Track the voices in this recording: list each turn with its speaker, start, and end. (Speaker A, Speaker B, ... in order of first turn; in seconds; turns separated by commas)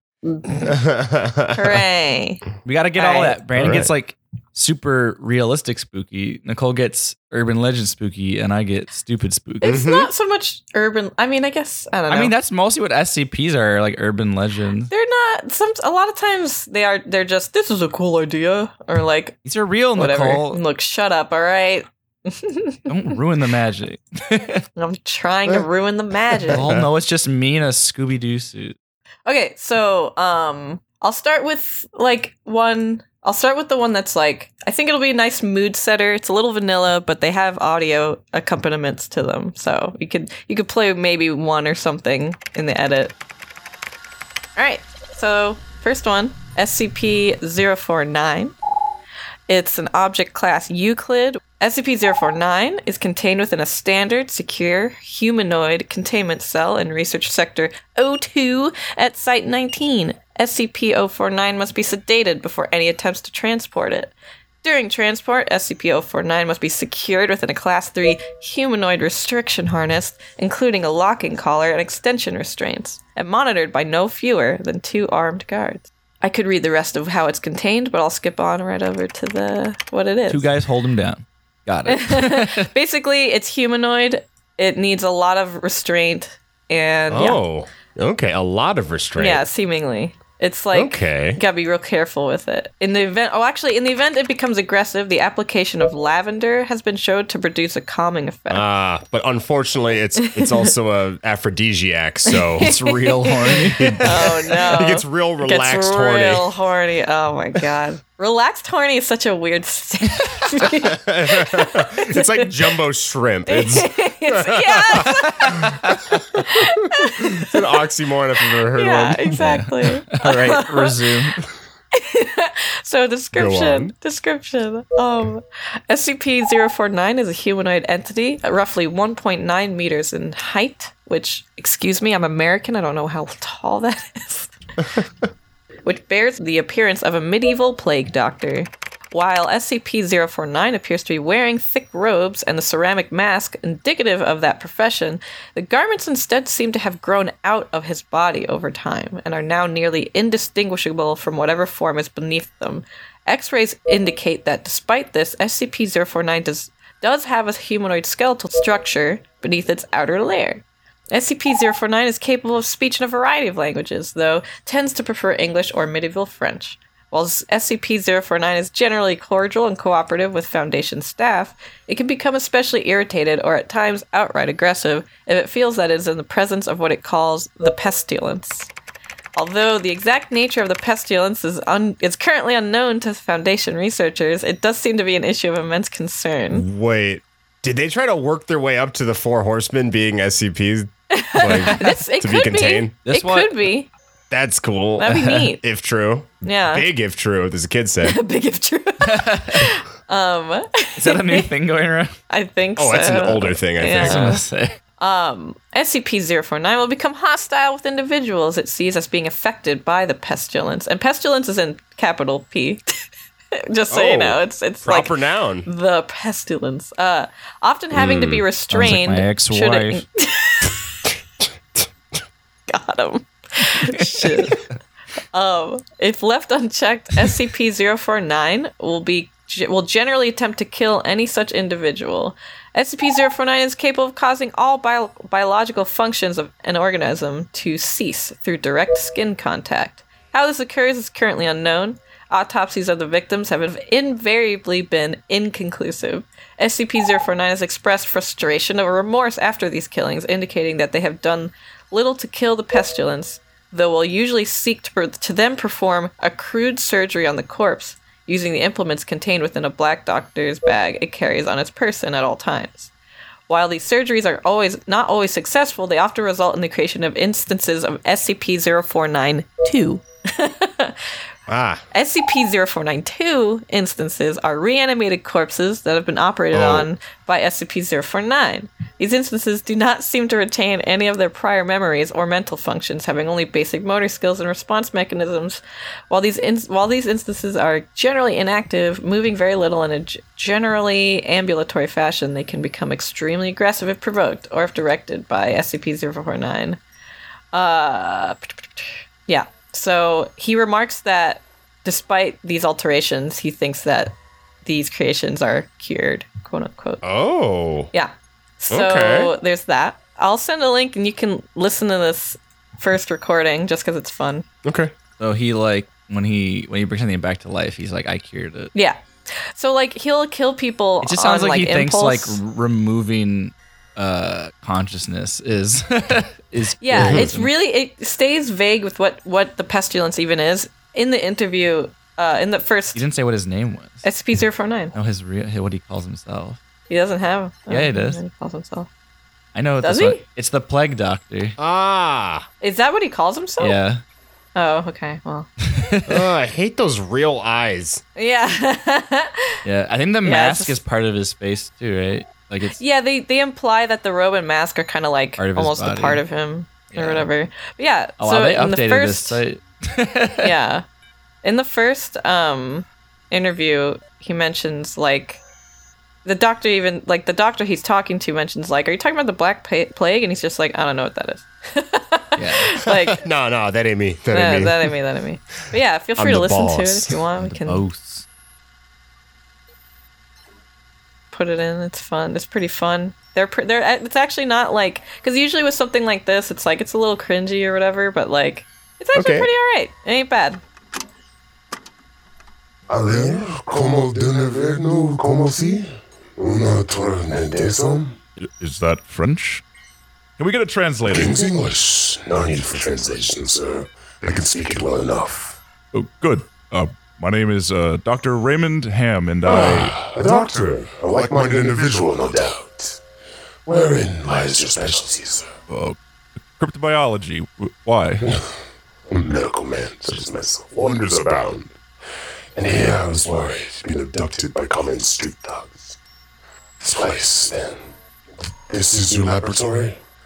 Speaker A: 0.2-0.7, Speaker B: 0.6-1.8, Speaker A: 1.5-2.4, Speaker C: 2.6-9.8, Speaker A: 3.0-3.4, Speaker B: 3.6-3.9, Speaker A: 9.6-12.3, Speaker B: 9.6-10.1, Speaker C: 12.1-14.9, Speaker A: 14.9-19.4, Speaker C: 19.4-20.6, Speaker A: 20.0-23.1, Speaker C: 22.9-24.6, Speaker A: 24.8-26.6, Speaker B: 26.3-26.8, Speaker C: 26.5-28.8, Speaker A: 29.3-43.1, Speaker A: 44.6-48.5, Speaker A: 49.5-80.5, Speaker C: 80.3-82.7, Speaker A: 81.9-87.4, Speaker B: 87.1-89.5, Speaker A: 89.2-98.6, Speaker B: 90.7-91.4, Speaker B: 98.5-102.8, Speaker A: 100.2-100.7, Speaker A: 102.3-112.5, Speaker C: 102.6-104.1, Speaker B: 103.8-106.5, Speaker B: 110.7-115.7, Speaker A: 113.5-115.8, Speaker C: 115.4-116.0, Speaker B: 116.3-119.5, Speaker A: 116.3-117.8, Speaker A: 118.6-121.1, Speaker C: 119.4-121.4, Speaker A: 121.9-135.0, Speaker B: 123.3-123.9, Speaker A: 135.8-178.7, Speaker A: 179.4-186.7, Speaker B: 186.5-192.9, Speaker A: 191.1-193.9, Speaker C: 193.1-193.6, Speaker B: 194.3-198.2, Speaker A: 195.0-195.6, Speaker C: 195.1-195.4, Speaker A: 196.4-196.9, Speaker A: 198.0-201.5, Speaker C: 199.0-199.7, Speaker C: 201.0-202.2, Speaker A: 202.3-204.4, Speaker B: 202.8-204.3, Speaker C: 204.0-204.8, Speaker A: 205.0-212.9, Speaker A: 213.6-220.8, Speaker B: 213.9-215.7, Speaker B: 217.9-218.4, Speaker C: 218.7-220.0, Speaker A: 222.7-224.6, Speaker C: 223.8-224.2, Speaker A: 225.3-262.9, Speaker A: 263.5-271.1, Speaker B: 271.5-271.8, Speaker A: 271.9-296.8, Speaker B: 276.5-276.9, Speaker A: 297.5-307.0, Speaker B: 307.0-307.9, Speaker A: 307.9-314.4, Speaker B: 308.7-309.3, Speaker B: 314.6-314.9, Speaker C: 315.2-318.7, Speaker A: 318.8-322.4, Speaker C: 321.0-327.5, Speaker A: 326.8-333.0, Speaker B: 327.0-327.3, Speaker C: 332.9-334.1, Speaker A: 334.0-334.9, Speaker C: 334.9-336.6, Speaker A: 336.9-338.9, Speaker C: 337.7-338.2, Speaker C: 339.6-341.6, Speaker A: 339.8-340.2, Speaker B: 341.6-342.5, Speaker A: 342.6-343.8, Speaker C: 343.6-344.0, Speaker A: 344.6-345.5, Speaker C: 345.6-346.2, Speaker B: 346.1-348.0, Speaker A: 348.2-349.6, Speaker C: 349.6-352.8, Speaker A: 350.2-350.8, Speaker A: 352.8-359.4, Speaker C: 355.4-356.2, Speaker C: 356.9-357.3, Speaker C: 358.2-360.5, Speaker A: 360.4-360.8, Speaker A: 361.4-365.4, Speaker A: 366.2-373.2, Speaker C: 372.4-372.8, Speaker B: 372.9-374.9, Speaker A: 374.3-377.8, Speaker B: 376.2-377.2, Speaker C: 377.4-378.3, Speaker A: 381.3-390.6, Speaker B: 389.1-389.5, Speaker D: 392.9-398.2, Speaker E: 398.4-399.6, Speaker E: 400.4-401.4, Speaker D: 401.1-405.6, Speaker E: 405.9-410.0, Speaker D: 409.4-413.0, Speaker D: 413.7-415.5, Speaker E: 415.7-416.0, Speaker E: 416.6-418.3, Speaker D: 418.2-418.5, Speaker D: 419.1-421.8, Speaker D: 422.6-426.0, Speaker D: 426.8-427.9, Speaker D: 428.7-430.0